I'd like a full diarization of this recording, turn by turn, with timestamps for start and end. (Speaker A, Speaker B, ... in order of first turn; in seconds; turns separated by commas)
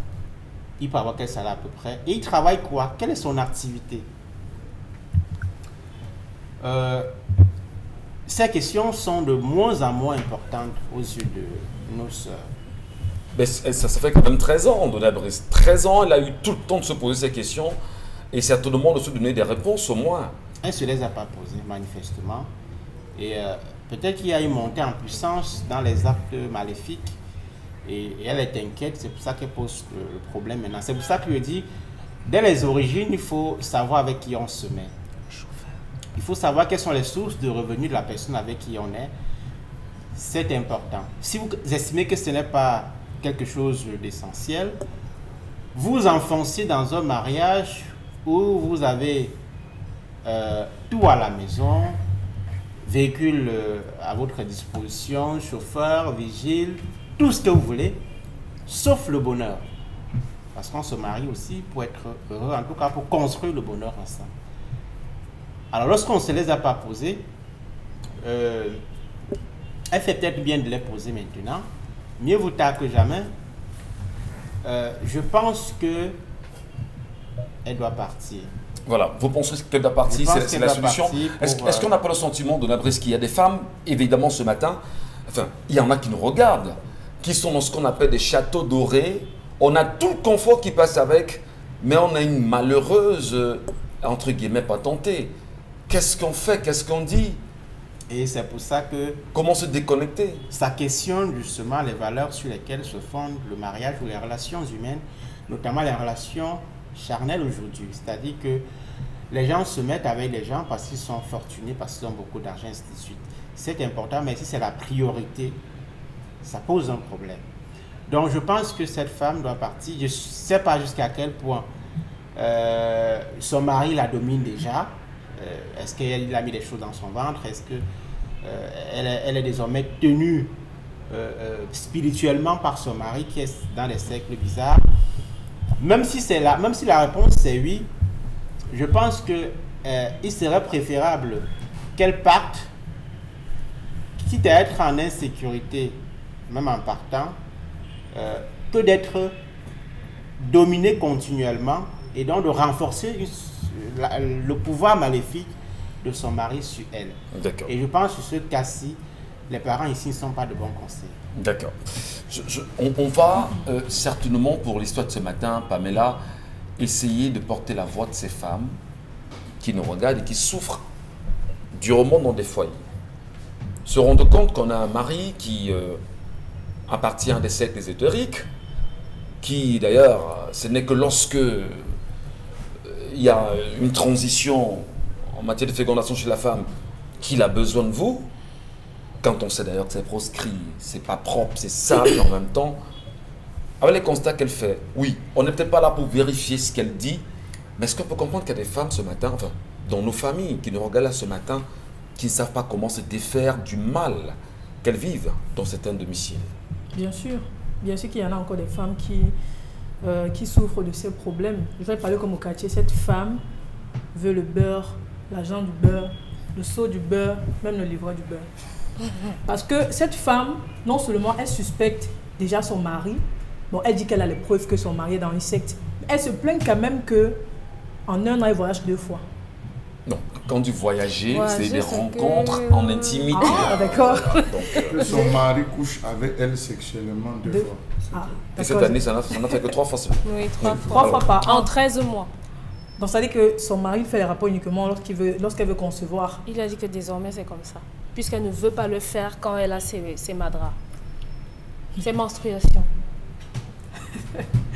Speaker A: 0.8-4.1, Speaker A: 6.6-7.1, Speaker A: 8.2-12.5, Speaker B: 13.3-17.8, Speaker B: 18.3-20.3, Speaker A: 20.6-22.5, Speaker A: 23.1-27.1, Speaker A: 27.8-31.7, Speaker A: 32.2-34.9, Speaker A: 36.1-39.1, Speaker A: 40.1-44.8, Speaker A: 45.7-49.4, Speaker A: 50.2-52.0, Speaker A: 52.8-58.0, Speaker A: 58.7-59.6, Speaker A: 60.5-64.3, Speaker A: 65.7-67.3, Speaker A: 68.2-68.8, Speaker A: 69.9-71.7, Speaker A: 72.2-73.3, Speaker A: 74.6-76.2, Speaker A: 77.6-78.5, Speaker B: 78.8-95.3, Speaker A: 80.0-81.9, Speaker B: 95.9-97.4, Speaker A: 98.1-99.2, Speaker B: 99.3-100.4, Speaker A: 100.5-108.6, Speaker A: 109.3-115.6, Speaker A: 116.4-117.4, Speaker A: 118.1-121.7, Speaker A: 122.3-127.8, Speaker A: 128.4-130.6, Speaker A: 131.1-134.8, Speaker A: 135.8-137.9, Speaker A: 138.7-142.7, Speaker A: 144.2-147.4, Speaker A: 148.1-149.3, Speaker A: 150.4-159.0, Speaker B: 157.3-157.7, Speaker A: 159.5-161.1, Speaker B: 161.3-161.8, Speaker B: 162.3-166.2, Speaker B: 166.8-168.7, Speaker B: 169.6-170.8, Speaker B: 171.7-172.8, Speaker B: 173.8-176.0, Speaker B: 176.9-178.4, Speaker B: 179.4-181.8, Speaker B: 182.8-186.7, Speaker B: 187.2-188.3, Speaker B: 189.2-192.8, Speaker B: 193.8-197.2, Speaker B: 197.8-201.6, Speaker B: 202.2-206.5, Speaker C: 206.9-209.3, Speaker C: 210.0-213.4, Speaker C: 214.1-218.5, Speaker C: 219.4-227.4, Speaker C: 228.1-229.2, Speaker B: 230.1-235.0, Speaker D: 231.3-233.8, Speaker C: 233.3-235.1, Speaker D: 234.3-235.2, Speaker E: 234.8-238.1, Speaker C: 237.5-239.0, Speaker B: 238.6-241.3, Speaker D: 240.2-242.3, Speaker C: 240.8-241.7, Speaker C: 243.0-246.4, Speaker D: 246.4-250.8, Speaker D: 252.0-252.9